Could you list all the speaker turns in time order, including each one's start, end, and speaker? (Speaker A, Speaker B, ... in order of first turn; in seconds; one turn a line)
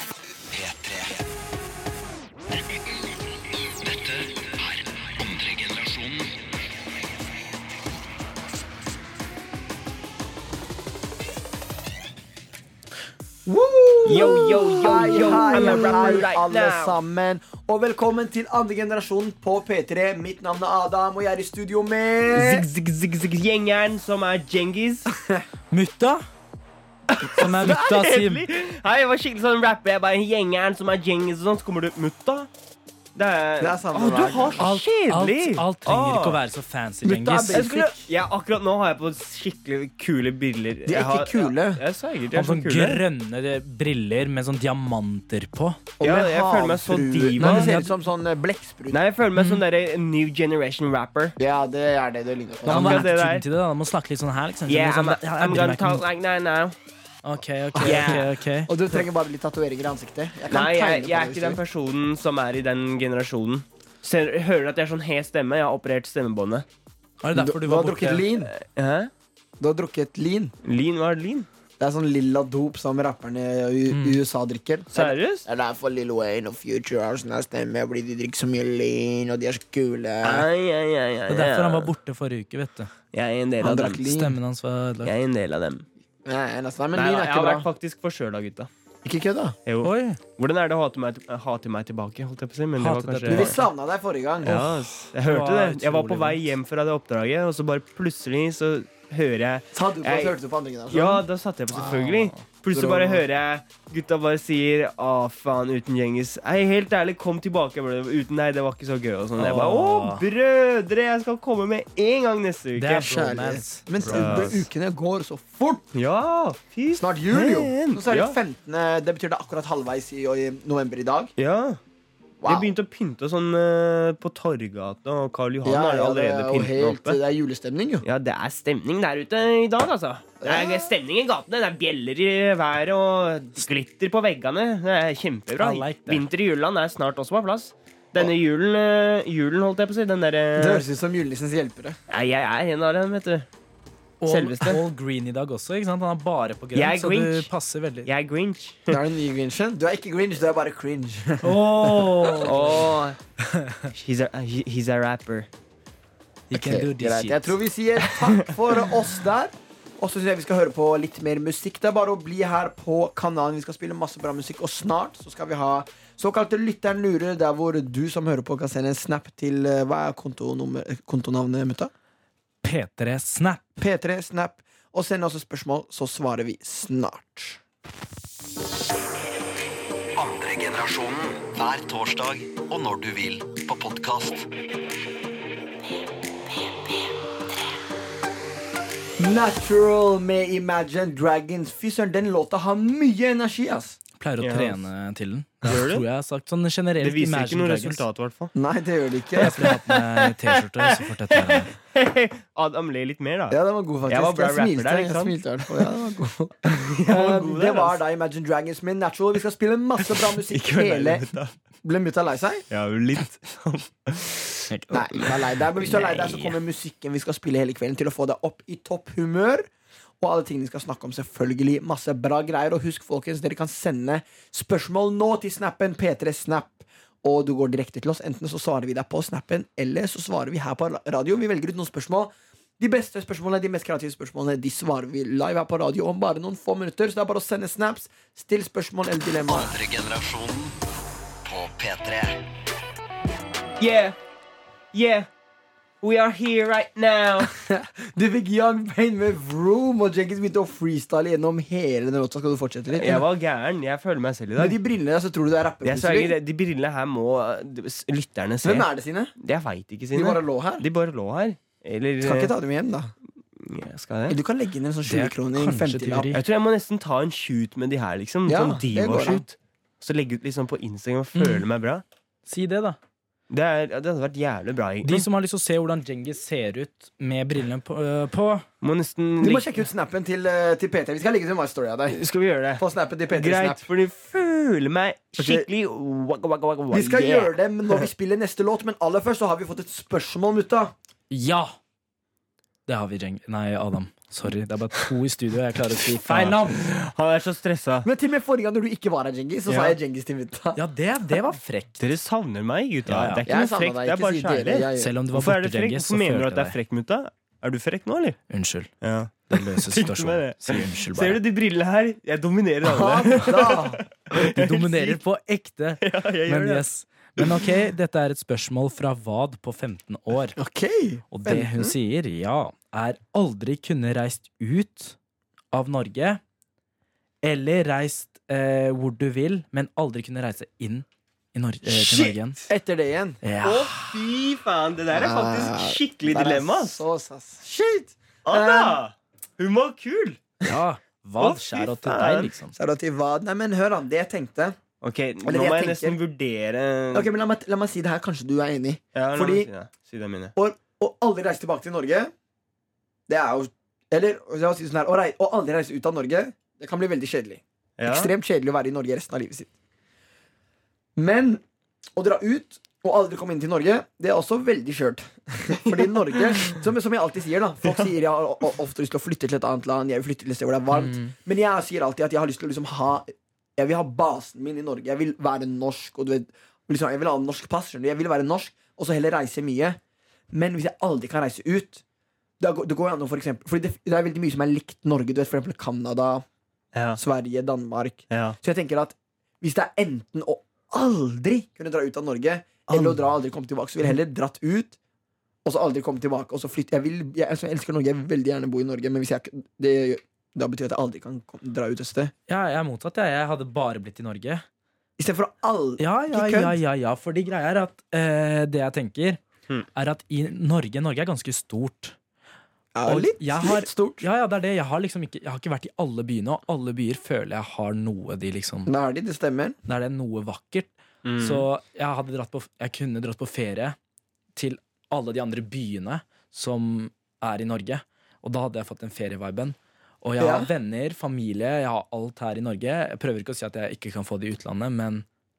Speaker A: 0.5-1.2
Speaker A: 3.7-6.3
Speaker B: 13.5-22.7
Speaker C: 14.1-17.0
Speaker D: 15.4-15.8
Speaker C: 22.3-25.1
Speaker D: 25.7-26.3
Speaker C: 27.1-32.5
Speaker D: 27.2-28.5
Speaker C: 33.2-36.4
Speaker B: 33.6-34.7
Speaker D: 34.6-38.0
Speaker B: 37.0-37.9
Speaker C: 37.5-43.0
Speaker B: 40.9-41.8
Speaker D: 42.3-45.8
Speaker B: 46.0-49.0
Speaker C: 46.0-47.8
Speaker D: 47.4-47.9
Speaker C: 48.9-51.4
Speaker B: 51.4-53.1
Speaker C: 52.7-53.4
Speaker D: 52.7-56.0
Speaker C: 54.7-56.8
Speaker D: 57.2-58.7
Speaker B: 57.7-61.6
Speaker C: 57.8-58.3
Speaker C: 60.5-66.7
Speaker D: 67.2-68.3
Speaker B: 67.3-68.5
Speaker C: 68.4-69.1
Speaker B: 69.6-70.5
Speaker C: 70.6-71.5
Speaker B: 71.8-80.5
Speaker D: 73.9-74.2
Speaker C: 74.9-75.5
Speaker C: 80.2-81.9
Speaker D: 81.3-82.9
Speaker C: 83.1-84.0
Speaker B: 83.6-84.4
Speaker D: 84.0-85.1
Speaker C: 85.0-85.8
Speaker B: 86.2-87.7
Speaker C: 87.0-88.7
Speaker B: 89.0-89.6
Speaker C: 89.7-93.6
Speaker D: 89.8-90.2
Speaker D: 92.8-93.6
Speaker B: 93.3-94.7
Speaker C: 94.4-100.4
Speaker D: 94.6-96.5
Speaker B: 99.7-101.2
Speaker C: 100.9-113.1
Speaker B: 102.7-103.2
Speaker D: 109.4-110.2
Speaker D: 112.8-114.5
Speaker B: 113.0-115.9
Speaker C: 114.0-114.6
Speaker C: 115.9-118.4
Speaker B: 117.0-121.3
Speaker C: 121.4-121.8
Speaker B: 122.4-122.7
Speaker C: 122.5-127.2
Speaker B: 125.6-128.1
Speaker C: 128.0-140.8
Speaker B: 130.4-130.9
Speaker D: 135.6-136.2
Speaker B: 140.6-142.0
Speaker C: 142.1-143.5
Speaker D: 144.2-148.1
Speaker C: 144.3-144.8
Speaker C: 146.8-147.5
Speaker C: 148.1-149.0
Speaker B: 148.9-152.8
Speaker D: 151.4-152.9
Speaker C: 152.2-153.2
Speaker D: 153.5-153.9
Speaker C: 153.9-155.5
Speaker D: 156.5-157.6
Speaker B: 156.5-171.9
Speaker D: 172.6-173.8
Speaker B: 173.8-177.6
Speaker A: 180.2-184.5
Speaker B: 189.2-194.0
Speaker D: 194.2-198.0
Speaker C: 194.4-194.8
Speaker C: 195.7-196.1
Speaker C: 197.0-198.5
Speaker B: 198.6-199.7
Speaker D: 199.4-201.7
Speaker C: 199.4-200.3
Speaker C: 200.8-205.9
Speaker B: 203.5-211.3
Speaker C: 206.7-208.0
Speaker C: 210.1-211.6
Speaker B: 211.8-212.7
Speaker C: 212.7-214.6
Speaker D: 214.7-215.3
Speaker B: 214.9-219.7
Speaker C: 215.9-216.6
Speaker B: 220.2-239.7
Speaker A: 239.5-240.8
Speaker A: 241.4-242.4
Speaker C: 243.8-244.2
Speaker C: 244.9-245.3
Speaker C: 246.0-247.5
Speaker B: 247.5-253.3
Speaker C: 252.9-254.8
Speaker B: 254.6-256.4
Speaker C: 255.8-262.5
Speaker B: 258.6-259.3
Speaker B: 260.1-260.9
Speaker B: 262.2-263.1
Speaker C: 263.6-264.4
Speaker B: 264.3-266.3
Speaker D: 265.0-266.4
Speaker C: 266.3-272.0
Speaker B: 268.5-269.4
Speaker D: 271.4-271.7
Speaker D: 272.5-273.0
Speaker C: 273.5-275.3
Speaker D: 275.0-278.7
Speaker C: 278.8-279.7
Speaker B: 279.4-282.2
Speaker C: 282.1-288.0
Speaker B: 282.8-283.9
Speaker B: 285.4-285.7
Speaker B: 286.9-290.9
Speaker D: 291.3-291.8
Speaker D: 292.9-296.9
Speaker C: 296.2-298.1
Speaker B: 298.0-300.8
Speaker C: 299.7-300.0
Speaker D: 300.8-302.0
Speaker C: 302.0-308.4
Speaker D: 303.1-303.5
Speaker B: 303.4-305.1
Speaker D: 305.0-306.8
Speaker D: 308.5-308.9
Speaker C: 309.0-315.2
Speaker D: 309.5-311.4
Speaker B: 312.8-314.0
Speaker D: 314.4-320.6
Speaker C: 316.0-317.7
Speaker B: 320.6-321.9
Speaker D: 321.3-325.2
Speaker D: 325.7-326.4
Speaker D: 327.4-332.6
Speaker B: 332.0-333.4
Speaker D: 333.4-334.1
Speaker C: 333.6-337.0
Speaker B: 335.1-339.0
Speaker C: 338.4-340.7
Speaker D: 340.6-342.8
Speaker C: 341.4-342.5
Speaker B: 342.7-344.8
Speaker C: 345.0-347.3
Speaker B: 345.4-346.2
Speaker B: 347.1-349.7
Speaker C: 349.1-350.5
Speaker B: 350.6-352.3
Speaker B: 353.3-359.7
Speaker C: 358.0-358.3
Speaker B: 361.2-361.6
Speaker B: 362.1-380.0
Speaker C: 365.9-366.8
Speaker D: 370.9-371.3
Speaker B: 380.5-382.0
Speaker B: 382.6-386.4
Speaker C: 386.9-387.2
Speaker B: 387.2-395.0
Speaker C: 388.3-388.6
Speaker C: 392.9-393.2
Speaker B: 395.6-402.3
Speaker D: 402.5-404.6
Speaker B: 405.2-406.8
Speaker D: 406.0-409.4
Speaker D: 409.9-412.2
Speaker B: 412.9-414.3
Speaker D: 413.1-418.9
Speaker B: 418.9-419.8
Speaker D: 419.9-424.0
Speaker C: 421.2-421.7
Speaker D: 424.6-435.2
Speaker B: 430.4-430.7